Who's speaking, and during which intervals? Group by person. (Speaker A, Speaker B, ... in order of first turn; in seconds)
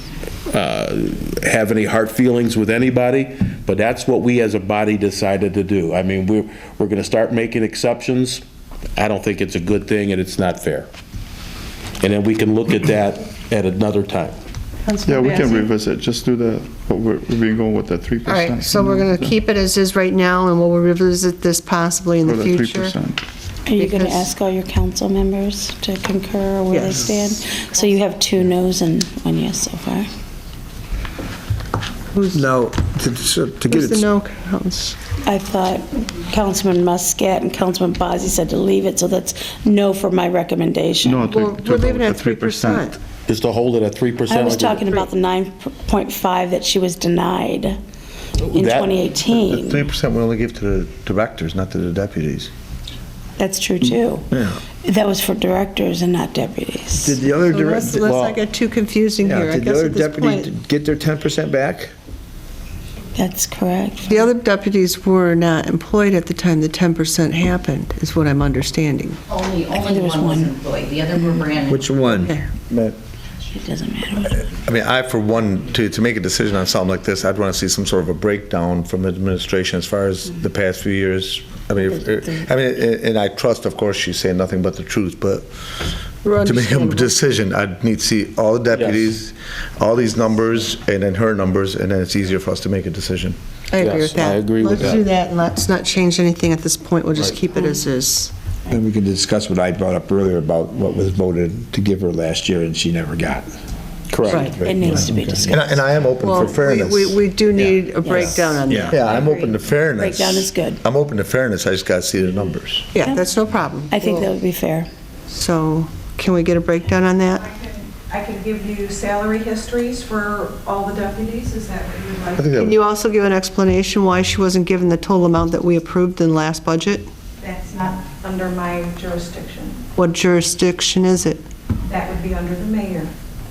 Speaker A: 0.5-8.4, 8.9-10.9, 12.0-14.3, 43.3-45.1, 48.5-49.0, 88.7-89.1, 93.8-95.0, 104.1-104.5
Speaker B: 14.8-15.7, 18.3-23.0, 23.8-24.3, 26.7-27.4, 32.1-32.4, 33.7-35.0, 41.2-43.0, 57.4-60.5, 64.1-69.2, 72.1-72.4, 86.2-87.1, 93.7-98.3, 104.3-105.1, 106.2-108.9, 113.0-114.3, 115.3-117.5, 122.5-127.1, 130.0-131.4
Speaker C: 15.0-19.3, 22.2-23.2, 41.0-42.9
Speaker D: 23.7-30.1, 35.2-41.3, 44.3-47.8, 48.5-49.8, 53.4-54.3, 54.8-57.2, 63.1-64.3, 69.8-70.5, 73.5-74.3, 104.6-105.7, 108.0-110.8, 113.9-114.9
Speaker E: 32.3-34.1, 57.0-58.4, 59.2-61.9, 71.7-72.3, 98.7-103.5, 104.3-105.7
Speaker F: 49.3-52.5, 72.7-73.0, 74.2-85.5, 86.4-93.3, 105.3-107.2, 108.7-112.9, 122.4-122.7
Speaker G: 69.3-72.0
Speaker H: 118.1-122.3, 127.5-129.7, 131.9-133.1